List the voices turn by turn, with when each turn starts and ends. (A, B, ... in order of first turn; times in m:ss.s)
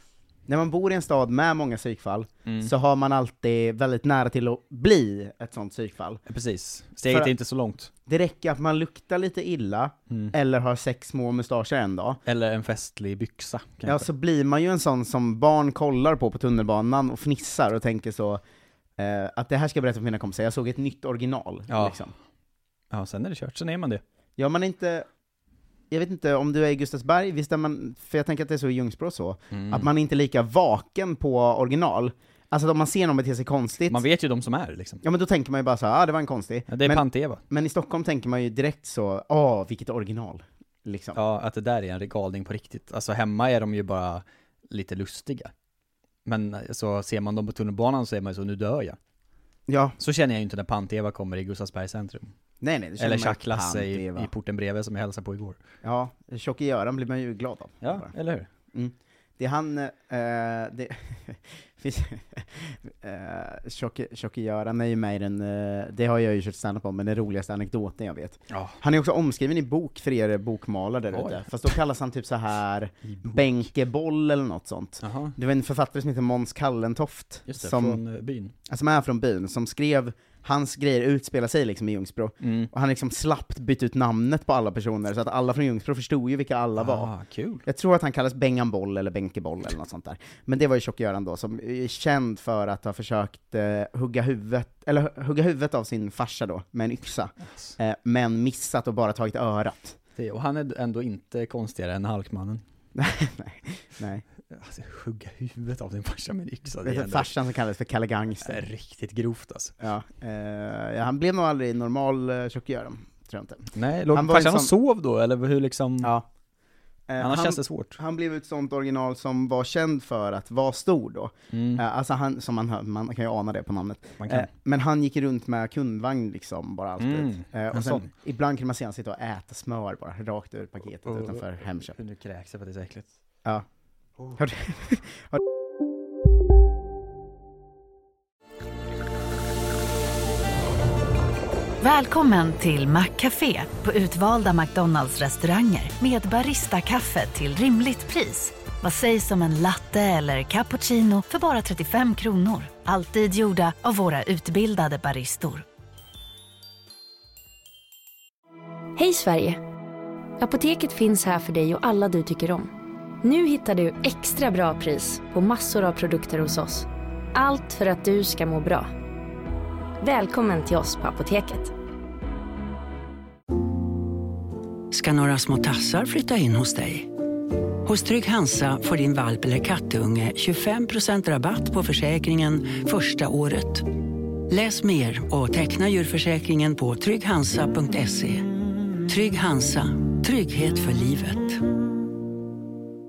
0:00.5-0:06.2 A
0:02.4-0:02.7 B
0:06.3-0:07.9 B
0:07.1-0:07.3 A
0:08.1-0:12.2 A
0:12.2-0:14.0 B
0:13.8-0:18.4 A
0:19.0-0:22.1 A
0:21.7-0:22.1 B
0:22.9-0:24.0 B
0:24.4-0:25.0 A
0:25.9-0:34.0 A
0:29.5-0:29.9 B
0:33.9-0:35.0 B
0:35.0-0:41.2 A
0:36.7-0:37.4 B
0:41.1-0:45.5 B
0:46.2-0:49.0 B
0:49.7-0:50.0 A
0:50.0-0:52.3 B
0:52.6-0:54.3 A
0:53.0-0:55.6 B
0:55.8-0:58.1 A
0:57.8-0:58.5 B
0:58.7-1:18.0 A
1:08.5-1:08.8 B
1:11.1-1:11.8 B
1:13.1-1:13.5 B
1:15.0-1:15.3 B
1:17.5-1:18.5 B
1:18.7-1:27.1 A
1:22.4-1:22.7 B
1:26.8-1:27.6 B
1:27.6-1:40.0 A
1:40.2-1:42.6 B
1:42.9-1:44.2 A
1:44.5-1:47.3 B
1:46.8-1:48.6 A
1:48.4-1:49.7 B
1:49.8-1:54.7 A
1:53.7-1:56.1 B
1:57.1-2:12.0 A
1:57.2-1:58.0 B
2:01.5-2:01.8 B
2:04.2-2:04.5 B
2:07.0-2:08.1 B
2:11.0-2:13.1 B
2:14.4-2:15.4 A
2:21.8-2:35.6 C
2:39.0-2:39.6 D
2:40.4-2:42.7 D
2:43.2-2:48.9 D
2:50.0-2:51.7 D
2:54.9-2:57.1 E
2:57.8-3:03.9 E
3:04.5-3:08.5 E
3:09.1-3:11.6 E